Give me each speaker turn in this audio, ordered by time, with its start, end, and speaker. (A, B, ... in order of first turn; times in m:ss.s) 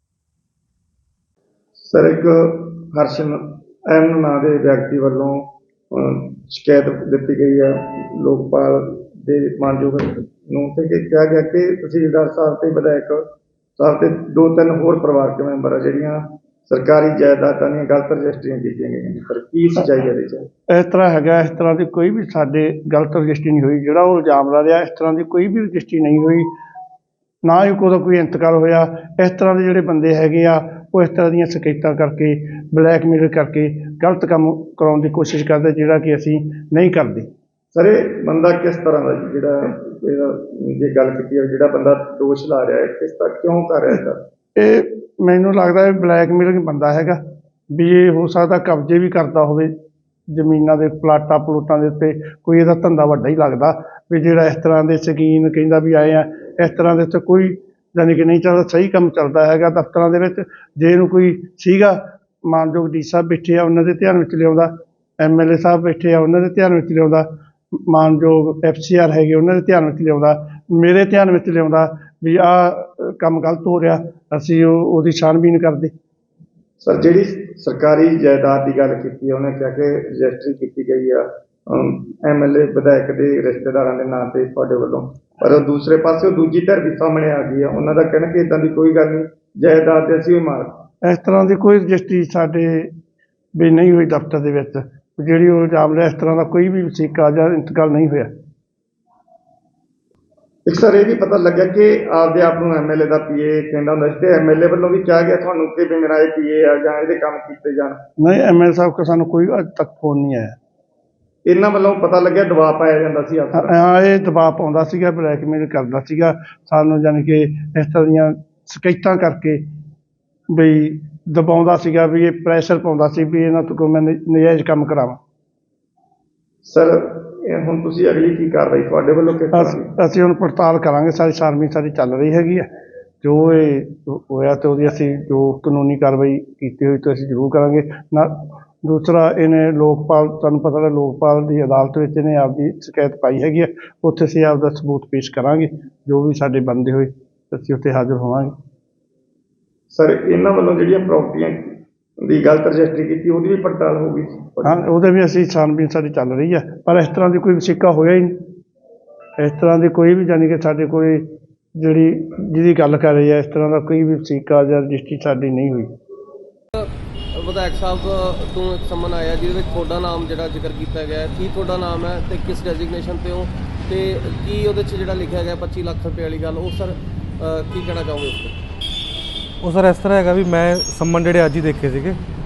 0:01.8-0:13.2 A
0:13.8-0:20.5 A
0:20.7-0:26.5 B
0:27.4-0:37.3 B
0:37.7-0:44.2 A
0:44.6-0:47.2 B
0:47.7-0:49.7 B
0:50.3-1:07.3 B
1:07.9-1:15.9 B
1:16.8-1:30.8 A
1:31.0-1:32.9 B
1:33.6-1:38.3 B
1:40.6-1:48.0 A
1:48.2-1:50.5 B
1:51.4-1:53.7 A
1:53.5-1:59.6 B
2:00.5-2:05.2 B
2:06.6-2:09.8 A
2:09.5-2:12.6 B
2:13.2-2:28.5 B
2:29.9-2:34.8 A
2:34.6-2:38.3 B
2:39.4-2:45.9 B
2:46.8-2:58.6 C
2:59.6-3:02.2 D